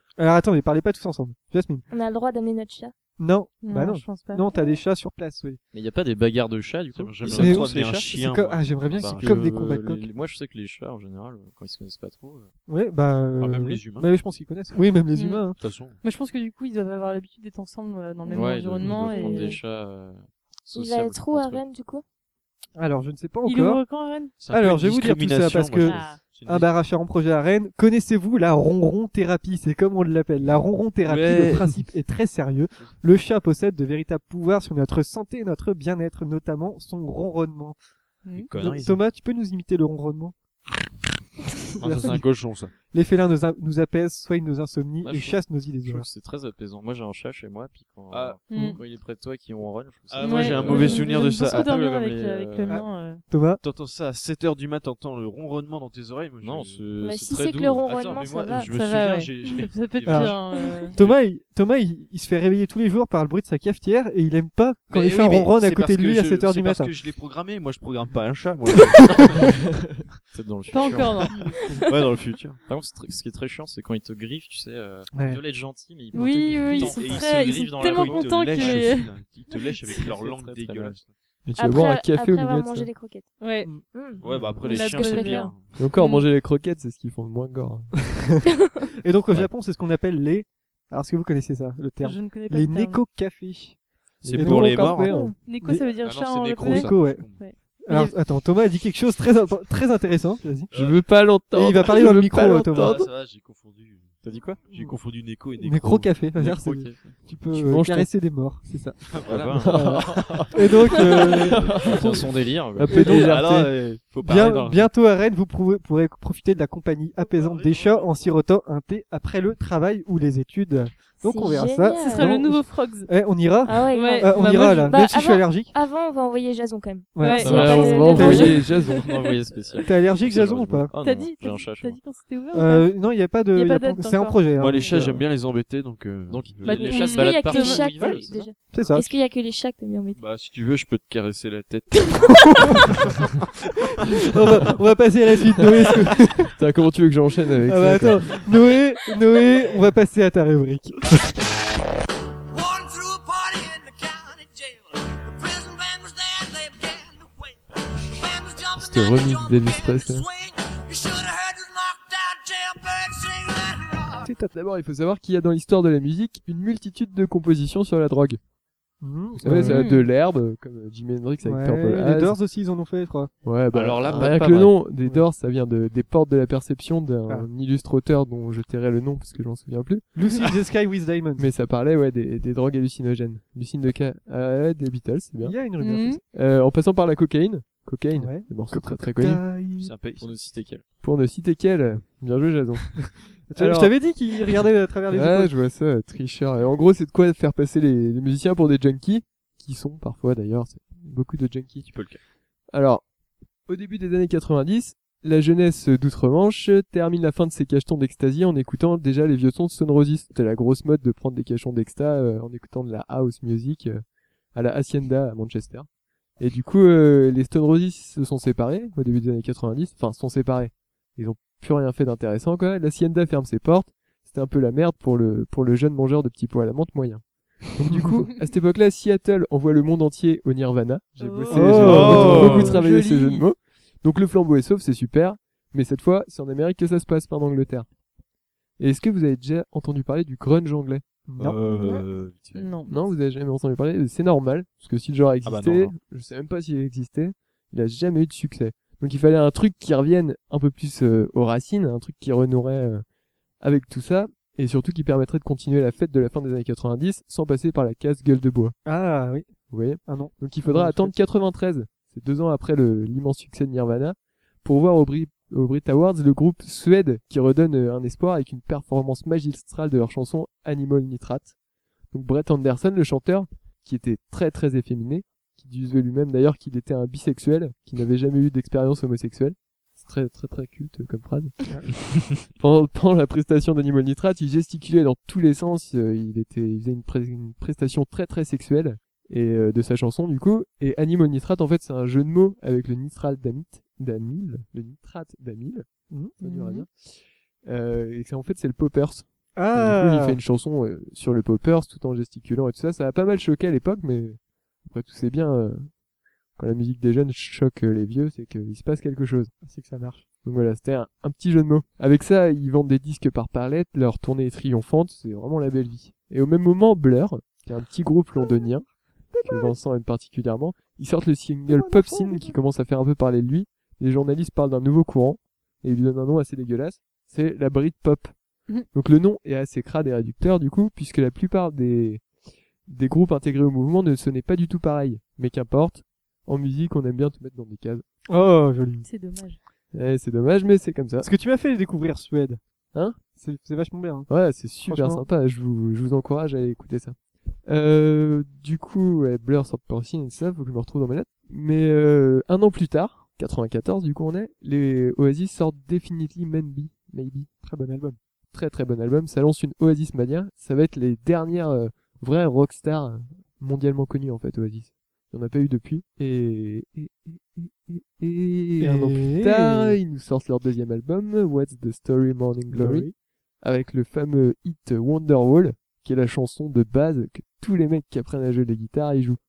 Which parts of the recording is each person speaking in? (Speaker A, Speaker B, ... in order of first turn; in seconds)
Speaker A: 0.2-1.9, 3.2-5.6, 7.3-10.1, 12.7-15.6, 22.8-23.8, 24.4-37.8, 38.6-40.4, 41.8-42.2, 42.9-46.1, 52.7-53.6, 60.0-60.4, 60.9-66.9, 75.1-75.4, 88.1-88.4, 89.0-93.8, 94.3-95.8, 96.6-97.3, 97.8-100.7, 101.5-103.0, 104.7-105.0, 105.6-109.0, 109.7-112.2, 112.9-113.5, 114.2-125.7, 127.1-127.5, 128.1-128.5, 129.8-130.9, 132.5-135.2, 138.7-139.1, 142.4-142.9, 143.9-146.5, 147.6-151.3, 164.2-164.5, 169.0-169.9, 171.4-173.3, 180.1-181.5, 185.4-186.2, 188.2-189.9, 193.5-195.5, 231.5-232.7, 241.3-241.6, 258.9-259.5, 260.1-261.1, 296.1-296.4, 299.6-300.4, 309.6-310.2, 319.3-319.8, 321.7-322.6, 338.3-339.1, 341.2-342.6, 343.3-344.3, 344.8-345.2, 357.6-358.2, 368.8-370.0, 372.7-373.1
Speaker B: 1.9-2.9, 19.1-19.6, 20.7-22.0, 57.0-58.7, 81.6-83.3, 83.8-85.5, 121.2-122.4, 123.7-128.6, 136.9-140.2, 241.7-242.1
Speaker C: 3.6-4.5, 15.1-15.4, 16.0-19.6, 23.4-24.4, 25.8-26.2, 38.2-38.5, 48.5-48.8, 50.2-53.2, 58.6-61.0, 70.7-71.6, 76.1-79.1, 83.4-83.7, 84.6-86.3, 92.0-93.0, 95.0-98.1, 121.9-123.1, 123.9-125.0, 127.2-129.9, 131.0-132.9, 133.5-135.1, 136.6-138.2, 169.5-170.1, 185.7-186.2, 231.2-233.5, 242.5-243.0, 296.4-296.9, 339.0-339.6
Speaker D: 5.7-8.0, 8.9-12.5, 18.3-21.6, 45.0-52.9, 56.4-58.4, 70.3-71.4, 72.7-79.0, 79.9-81.1, 104.2-104.6, 106.4-107.2, 109.2-109.8, 111.7-113.0, 127.4-132.0, 136.3-138.5, 190.2-190.8
Speaker E: 7.0-9.6, 13.4-14.1, 15.6-16.0, 24.4-26.7, 31.1-31.7, 38.4-39.0, 41.8-42.7, 48.1-48.4, 50.1-51.7, 53.6-56.9, 57.6-61.2, 64.9-69.6, 71.9-72.6, 76.7-81.1, 84.2-85.8, 94.3-95.1, 95.9-97.4, 100.7-101.1, 102.1-104.1, 104.7-106.2, 109.1-112.2, 112.9-114.9, 117.2-118.2, 134.6-136.9, 140.2-144.4, 173.7-174.8, 189.8-190.3, 201.9-202.2, 231.8-232.8, 241.4-242.7, 245.4-245.9
Speaker F: 81.5-82.9, 85.8-87.9, 94.2-95.3, 100.7-103.1, 107.5-108.1, 109.6-110.7, 111.2-112.2, 112.8-113.7, 127.4-129.1, 146.6-148.5, 158.8-160.3, 164.4-168.4, 169.4-172.4, 173.4-180.1, 181.4-185.7, 186.3-189.4, 191.0-193.9, 195.1-201.9, 202.7-203.0, 203.7-214.0, 214.5-215.9, 216.4-227.2, 227.7-237.9, 238.8-241.0, 242.9-253.0, 253.6-258.7, 259.7-271.5, 272.1-295.9, 296.4-305.9, 306.6-309.5, 310.4-318.9, 319.4-328.3, 328.9-332.3, 332.9-338.1, 339.9-341.3, 344.3-357.5, 358.5-379.4
Speaker G: 152.5-157.5, 158.1-164.3